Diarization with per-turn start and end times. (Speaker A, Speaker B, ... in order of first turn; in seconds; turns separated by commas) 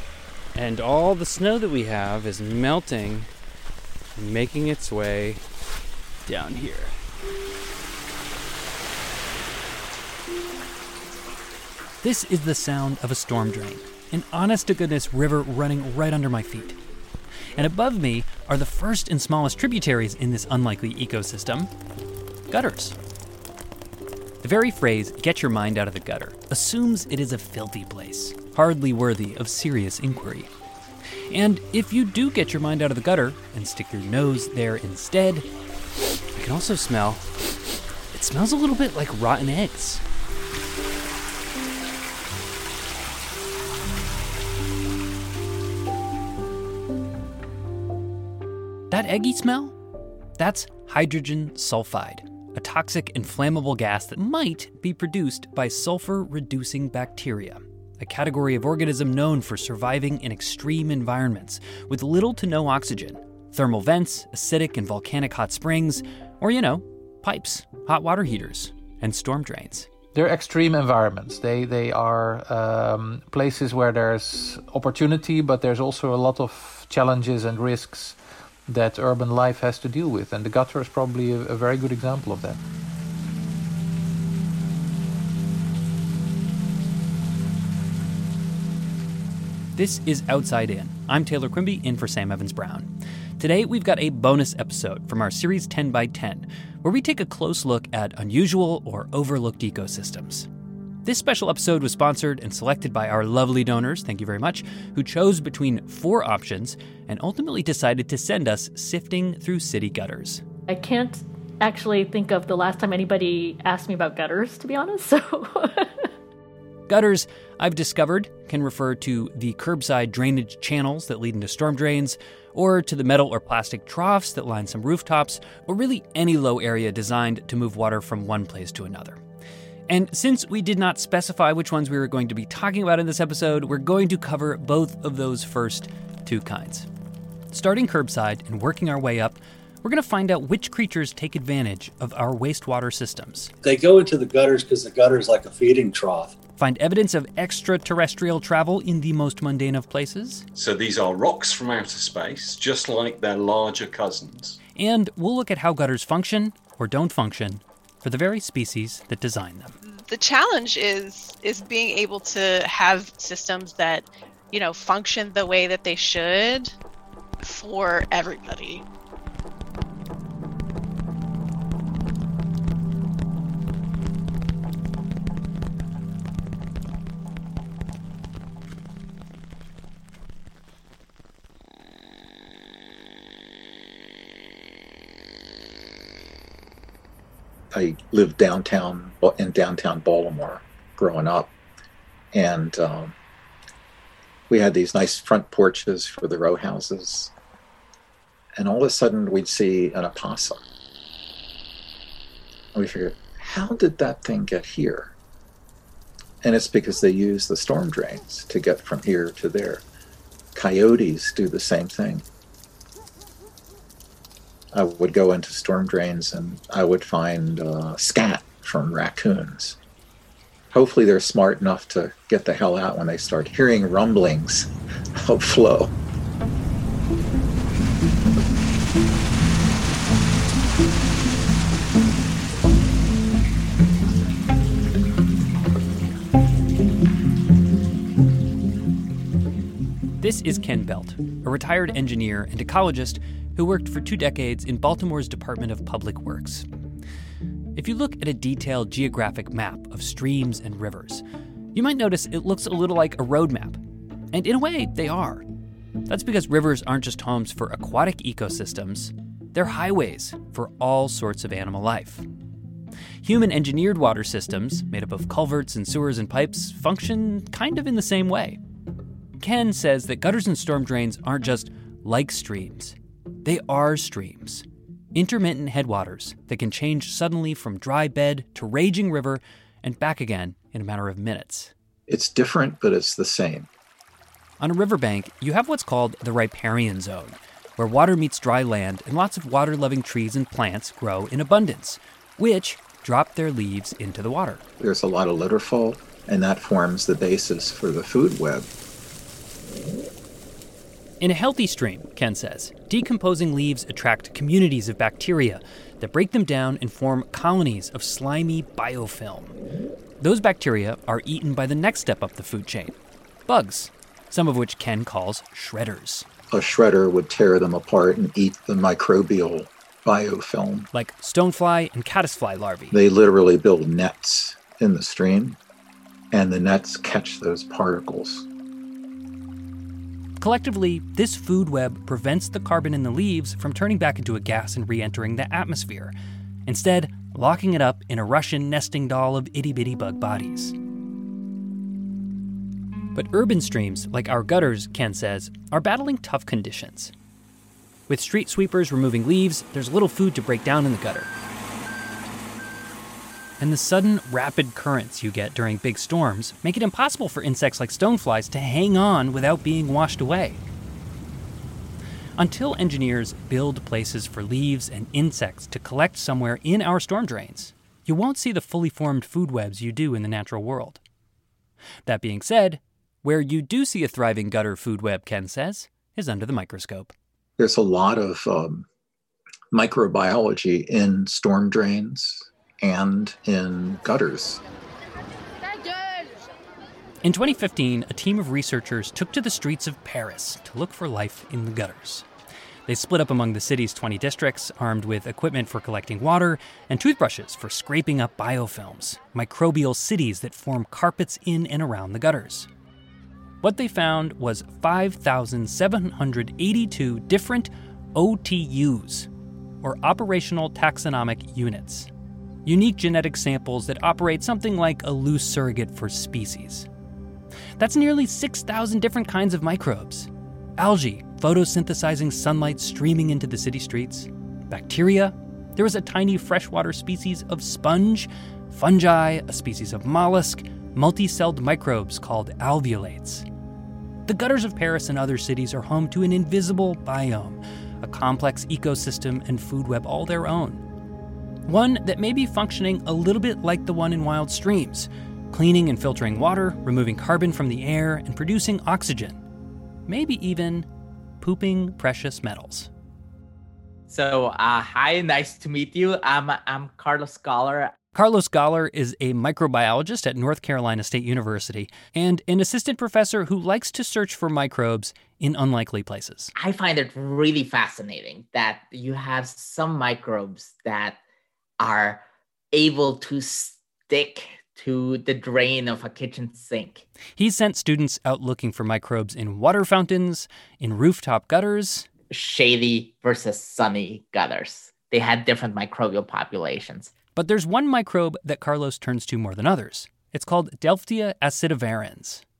Speaker A: 0.6-3.3, Speaker A: 4.2-5.4, Speaker A: 6.3-7.0, Speaker B: 12.0-16.8, Speaker B: 17.6-21.7, Speaker B: 22.5-23.0, Speaker B: 24.4-30.5, Speaker B: 31.3-35.5, Speaker B: 36.4-37.3, Speaker B: 38.1-40.0, Speaker B: 48.9-49.8, Speaker B: 50.4-69.9, Speaker C: 70.1-82.6, Speaker B: 89.8-100.5, Speaker B: 101.0-110.4, Speaker D: 110.7-116.1, Speaker B: 116.9-129.2, Speaker B: 129.9-136.9, Speaker B: 137.5-143.5, Speaker E: 143.6-146.3, Speaker B: 146.6-150.4, Speaker F: 150.6-154.6, Speaker B: 154.8-159.8, Speaker G: 159.8-166.8, Speaker G: 167.4-168.8, Speaker H: 187.7-191.5, Speaker H: 192.3-193.2, Speaker H: 194.5-197.3, Speaker H: 198.6-200.6, Speaker H: 202.7-205.1, Speaker H: 206.4-209.8, Speaker H: 210.6-212.2, Speaker H: 214.7-219.8, Speaker H: 220.7-225.9, Speaker B: 240.2-246.7, Speaker B: 247.8-251.2, Speaker B: 251.7-253.8, Speaker B: 254.3-255.4, Speaker B: 256.1-262.2, Speaker B: 263.2-268.6, Speaker B: 269.4-281.7, Speaker H: 282.1-283.7, Speaker B: 284.6-294.6, Speaker H: 294.8-298.7, Speaker B: 301.2-309.6, Speaker B: 310.2-313.0, Speaker B: 313.5-316.3, Speaker H: 316.5-320.9, Speaker B: 320.9-323.0, Speaker H: 322.9-325.6, Speaker H: 326.3-328.5, Speaker B: 330.4-336.1, Speaker B: 336.7-340.8, Speaker B: 343.1-347.1, Speaker B: 348.1-351.3, Speaker B: 353.6-360.6, Speaker B: 362.4-371.0, Speaker B: 372.1-377.1, Speaker H: 377.6-378.9, Speaker H: 379.7-384.6, Speaker B: 387.2-392.3, Speaker B: 392.9-402.7, Speaker B: 403.6-409.3, Speaker B: 409.8-412.1, Speaker B: 412.6-416.9, Speaker B: 417.8-433.5, Speaker B: 434.3-440.8, Speaker B: 441.7-449.4, Speaker B: 450.1-450.9, Speaker B: 451.4-452.9, Speaker I: 454.1-457.9, Speaker B: 458.1-466.5, Speaker I: 466.6-471.2, Speaker I: 471.8-477.1, Speaker B: 477.4-482.1, Speaker I: 482.3-487.1, Speaker B: 487.4-492.4